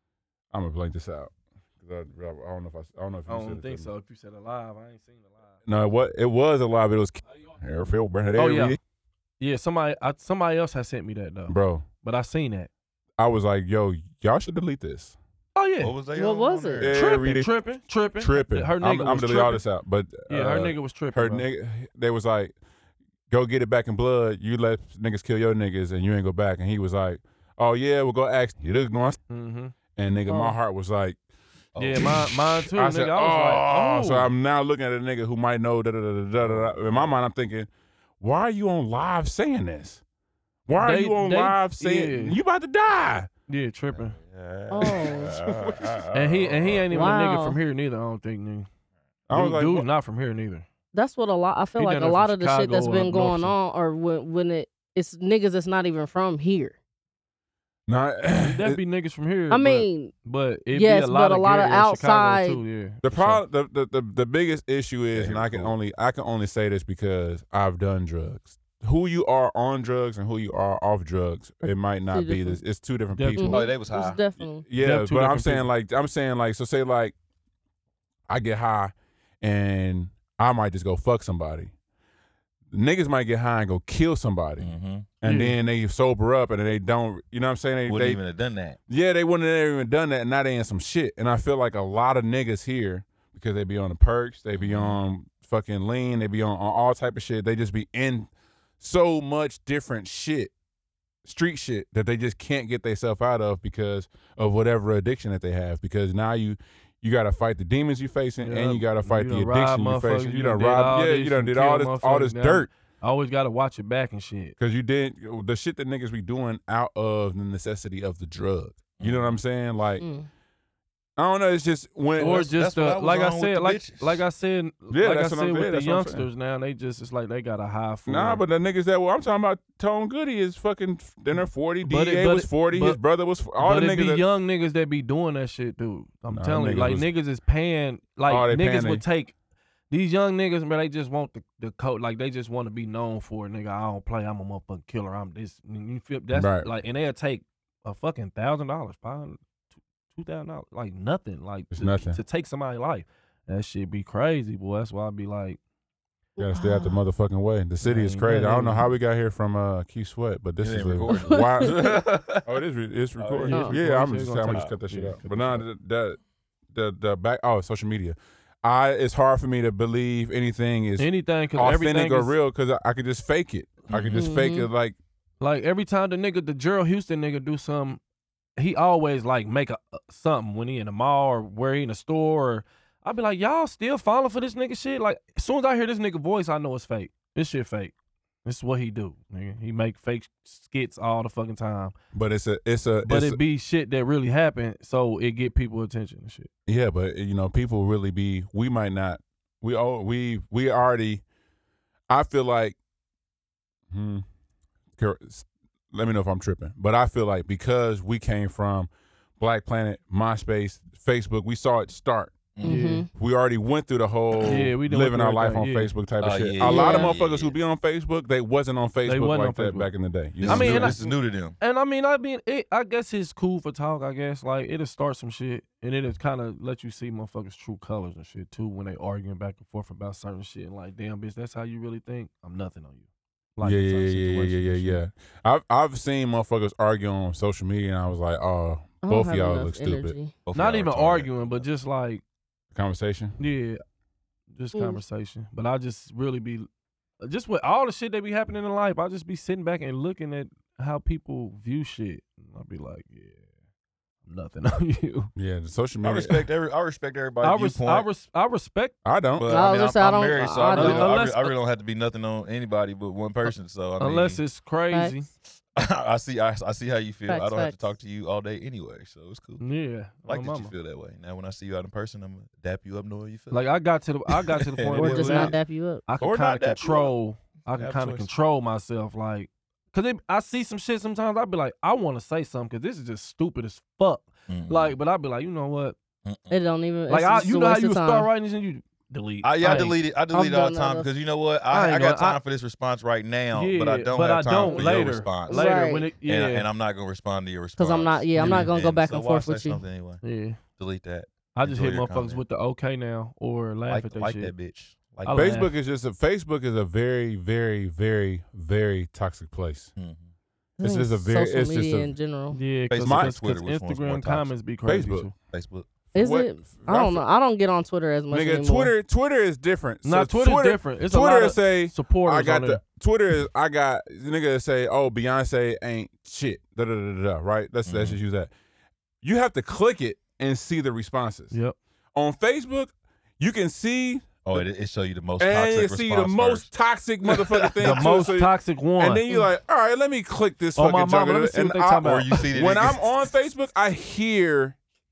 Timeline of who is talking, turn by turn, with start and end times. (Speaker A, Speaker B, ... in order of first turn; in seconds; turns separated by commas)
Speaker A: 0.5-3.9, Speaker B: 3.3-5.5, Speaker A: 5.7-8.8, Speaker B: 8.3-8.8, Speaker B: 9.4-12.7, Speaker A: 11.5-11.9, Speaker A: 13.2-15.2, Speaker B: 15.6-15.9, Speaker C: 15.8-17.1, Speaker D: 16.1-16.9, Speaker A: 16.8-22.5, Speaker B: 16.9-19.6, Speaker B: 20.3-21.4, Speaker A: 23.3-29.2, Speaker B: 29.3-29.7, Speaker A: 29.9-31.2, Speaker B: 30.3-30.6, Speaker C: 31.7-32.3, Speaker B: 31.8-34.3, Speaker A: 31.9-37.7, Speaker C: 36.4-37.1, Speaker A: 38.2-40.0, Speaker A: 40.7-43.3, Speaker B: 40.8-42.4, Speaker B: 43.5-44.2, Speaker C: 43.9-46.9, Speaker D: 44.7-45.4, Speaker B: 46.1-48.7, Speaker D: 46.9-47.6, Speaker A: 49.3-49.9, Speaker B: 49.3-50.6, Speaker D: 50.9-56.8, Speaker B: 51.8-53.5, Speaker A: 57.9-58.8, Speaker B: 58.4-63.4, Speaker D: 59.5-60.1, Speaker D: 60.7-62.6, Speaker A: 63.0-73.6, Speaker C: 65.1-65.7, Speaker D: 71.6-72.6, Speaker B: 73.2-73.6, Speaker D: 73.4-74.6, Speaker C: 73.5-74.2, Speaker A: 74.6-77.1, Speaker B: 74.8-75.7, Speaker A: 78.3-81.7, Speaker A: 82.7-84.7, Speaker C: 84.6-85.1, Speaker A: 85.2-88.2, Speaker B: 85.2-85.6, Speaker C: 87.9-88.8, Speaker A: 88.9-98.3, Speaker C: 94.5-95.0, Speaker A: 98.8-100.5, Speaker A: 101.2-112.7, Speaker B: 108.4-114.5, Speaker A: 114.6-120.0, Speaker C: 119.0-119.3, Speaker D: 120.0-120.3, Speaker A: 121.2-122.5, Speaker B: 122.2-128.4, Speaker C: 122.2-124.2, Speaker A: 124.9-126.3, Speaker A: 128.1-134.2, Speaker B: 131.8-133.0, Speaker B: 133.6-139.3, Speaker A: 136.3-137.1, Speaker A: 138.3-139.0, Speaker B: 139.9-149.4, Speaker A: 146.3-146.7, Speaker B: 150.1-155.6, Speaker A: 151.7-152.2, Speaker A: 156.4-166.2, Speaker D: 156.4-157.0, Speaker B: 157.8-158.9, Speaker C: 160.6-162.5, Speaker D: 161.1-161.7, Speaker C: 163.2-163.7, Speaker B: 163.4-165.6, Speaker A: 166.7-174.9, Speaker B: 171.0-172.3, Speaker C: 173.9-174.3, Speaker D: 174.1-174.7, Speaker B: 175.4-178.0, Speaker B: 178.6-187.9, Speaker B: 188.4-191.9, Speaker A: 192.1-193.4, Speaker B: 193.0-196.5, Speaker A: 196.7-201.2, Speaker A: 202.1-202.8, Speaker A: 203.9-204.2, Speaker A: 205.0-212.5, Speaker C: 212.5-212.8, Speaker B: 212.6-213.1, Speaker D: 212.6-213.1, Speaker A: 213.1-221.0, Speaker B: 214.4-215.9, Speaker C: 216.2-217.5, Speaker D: 216.6-217.1, Speaker B: 219.0-219.9, Speaker C: 220.4-221.6, Speaker B: 220.4-233.0, Speaker B: 233.6-235.0, Speaker A: 233.6-240.2, Speaker D: 239.0-240.3, Speaker C: 240.4-241.7, Speaker B: 240.5-242.2, Speaker A: 242.7-243.4, Speaker B: 243.4-243.8, Speaker B: 244.5-246.7, Speaker D: 244.7-245.0, Speaker B: 247.2-253.4, Speaker B: 254.2-255.3, Speaker A: 255.3-256.4, Speaker C: 256.0-258.1, Speaker B: 257.4-258.9, Speaker A: 259.0-259.5, Speaker C: 259.4-264.4, Speaker D: 259.5-261.1, Speaker B: 260.7-261.5, Speaker B: 264.0-265.3, Speaker C: 265.7-269.6, Speaker D: 267.3-267.8, Speaker B: 269.6-270.7, Speaker C: 270.2-273.7, Speaker B: 273.5-285.9, Speaker C: 274.3-275.6, Speaker D: 274.9-276.0, Speaker C: 276.2-277.1, Speaker C: 277.7-278.3, Speaker C: 284.5-284.9, Speaker C: 286.2-286.6, Speaker D: 286.5-288.3, Speaker B: 287.1-289.9, Speaker C: 289.4-295.7, Speaker D: 290.3-291.1, Speaker B: 291.7-292.4, Speaker B: 293.5-296.7, Speaker D: 295.5-296.1, Speaker C: 296.2-300.2, Speaker D: 297.8-299.8, Speaker B: 298.4-298.7, Speaker B: 300.2-300.6, Speaker C: 300.8-302.4, Speaker B: 301.5-304.5, Speaker C: 303.9-305.6, Speaker B: 305.2-305.7, Speaker A: 305.3-309.9, Speaker C: 309.9-310.3, Speaker D: 310.8-312.6, Speaker A: 310.8-312.1, Speaker B: 312.5-315.3, Speaker C: 312.9-314.5, Speaker A: 313.0-313.4, Speaker A: 314.9-315.3, Speaker C: 315.5-315.9, Speaker D: 316.1-318.9, Speaker A: 316.1-317.2, Speaker A: 318.3-328.5, Speaker B: 320.0-322.8, Speaker C: 327.9-328.2, Speaker A: 329.2-331.5, Speaker B: 331.5-331.8, Speaker A: 332.1-334.6, Speaker C: 334.4-336.7, Speaker A: 335.4-344.8, Speaker C: 337.3-338.4, Speaker B: 337.8-339.2, Speaker B: 340.8-342.5, Speaker C: 342.0-343.0